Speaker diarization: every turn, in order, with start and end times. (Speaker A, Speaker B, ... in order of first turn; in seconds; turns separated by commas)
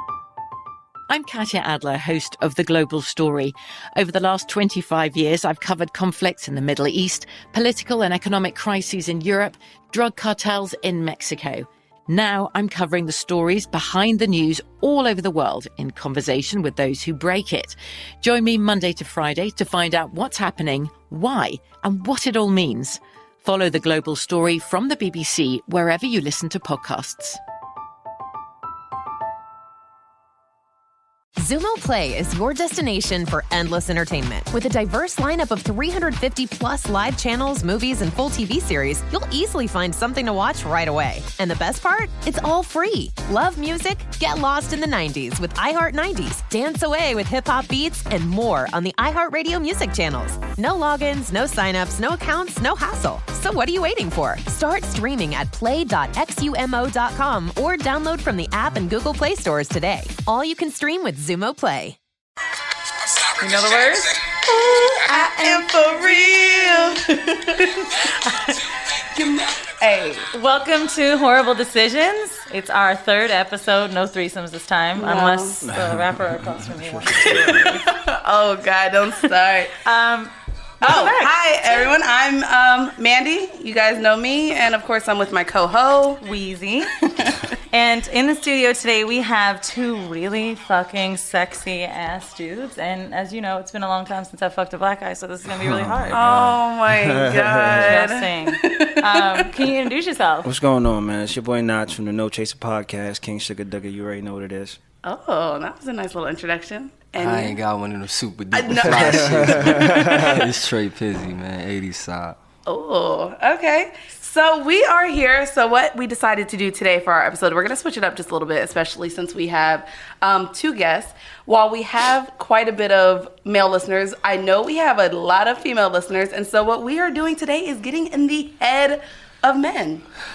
Speaker A: 1.1-27.4, Speaker B: 31.4-62.0, Speaker C: 63.4-64.2, Speaker D: 64.5-67.9, Speaker C: 65.0-66.9, Speaker C: 68.2-68.6, Speaker D: 69.1-70.3, Speaker C: 70.3-77.7, Speaker D: 75.0-75.6, Speaker E: 75.7-76.2, Speaker E: 77.0-77.7, Speaker D: 77.2-79.7, Speaker C: 79.8-81.9, Speaker D: 80.8-86.2, Speaker C: 86.2-86.9, Speaker D: 87.2-87.5, Speaker C: 87.7-96.2, Speaker E: 95.6-97.9, Speaker D: 96.1-99.5, Speaker C: 97.8-100.5, Speaker E: 100.4-104.8, Speaker D: 105.0-107.5, Speaker F: 107.2-112.3, Speaker D: 108.5-110.4, Speaker E: 108.8-110.4, Speaker D: 112.7-130.0